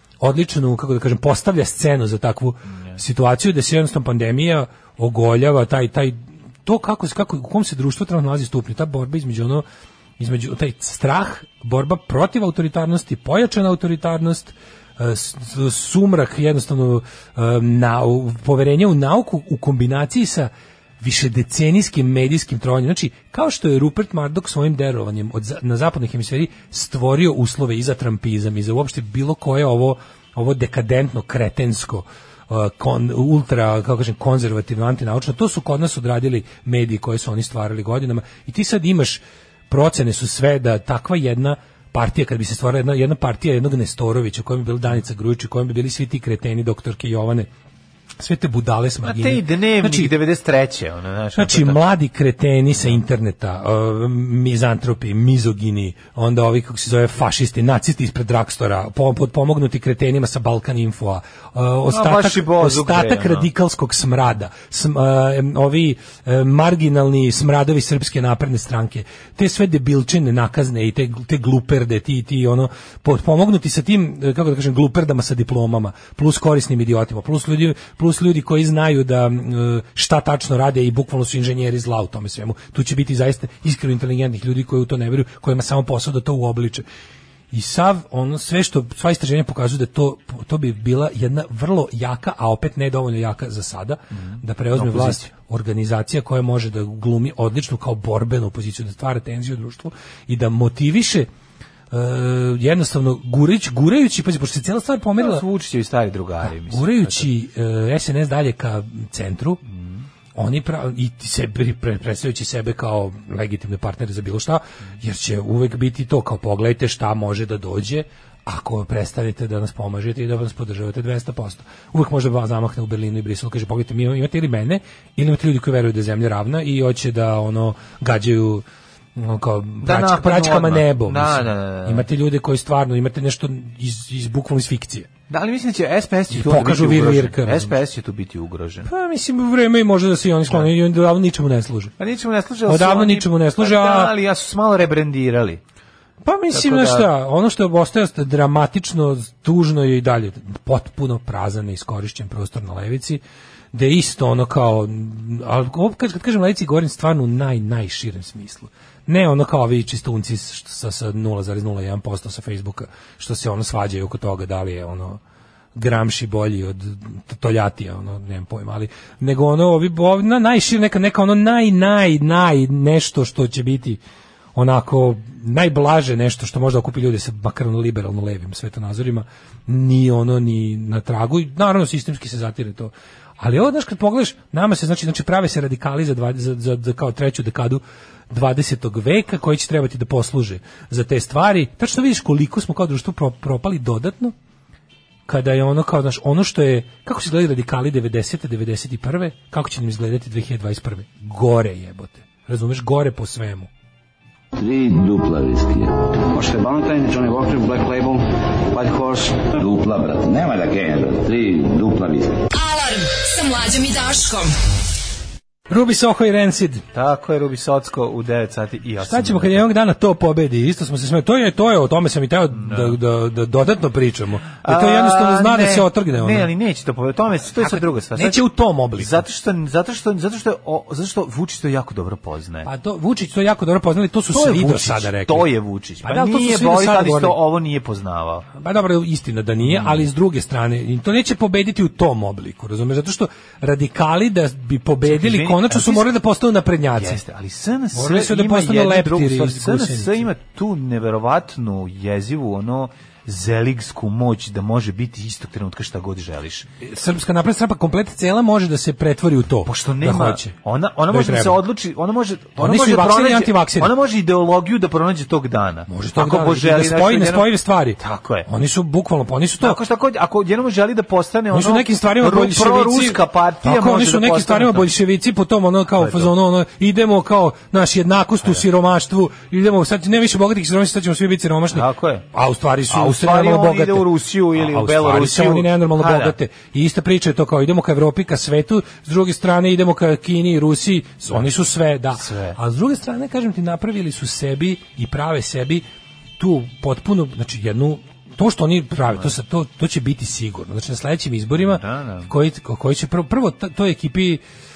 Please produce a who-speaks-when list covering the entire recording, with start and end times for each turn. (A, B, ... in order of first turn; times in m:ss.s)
0:00.2-0:09.6 A
0:10.2-0:47.5 A
0:48.2-0:50.1 A
0:49.0-0:51.8 B
0:51.4-1:26.8 A
1:01.9-1:03.5 B
1:27.5-1:41.3 A
1:34.1-1:35.2 B
1:41.9-1:45.4 A
1:45.2-1:47.2 B
1:46.4-1:49.6 A
1:49.7-1:50.0 B
1:50.3-2:08.6 A
2:09.2-2:15.1 A
2:09.8-2:12.1 B
2:15.3-2:18.9 B
2:16.3-2:17.8 A
2:18.8-2:21.9 A
2:22.0-2:25.6 B
2:22.6-2:24.1 A
2:26.2-2:33.2 A
2:26.5-2:27.1 B
2:33.7-2:45.2 A
2:45.7-2:54.0 A
2:54.5-3:14.3 A
3:15.3-3:23.7 A
3:24.5-3:26.1 C
3:29.5-3:32.4 C
3:32.5-3:34.5 D
3:35.7-3:36.8 A
3:36.9-3:39.6 B
3:39.0-3:46.5 A
3:42.6-3:42.9 B
3:44.6-3:48.4 B
3:47.6-3:49.2 A
3:49.0-3:52.7 B
3:52.6-3:55.5 A
3:54.3-3:58.5 B
3:56.0-3:57.4 A
3:58.5-4:07.2 A
3:59.6-4:00.0 B
4:05.0-4:06.1 B
4:07.0-4:16.7 B
4:07.9-4:10.3 A
4:16.8-4:20.6 A
4:19.6-4:28.5 B
4:21.1-4:21.6 A
4:22.6-4:23.9 A
4:25.9-4:29.8 A
4:29.6-4:34.9 B
4:31.5-4:55.8 A
4:36.0-4:36.3 B
4:41.7-4:42.2 B
4:42.9-4:46.4 B
4:52.2-4:52.6 B
4:56.4-5:04.4 A
5:01.6-5:02.3 B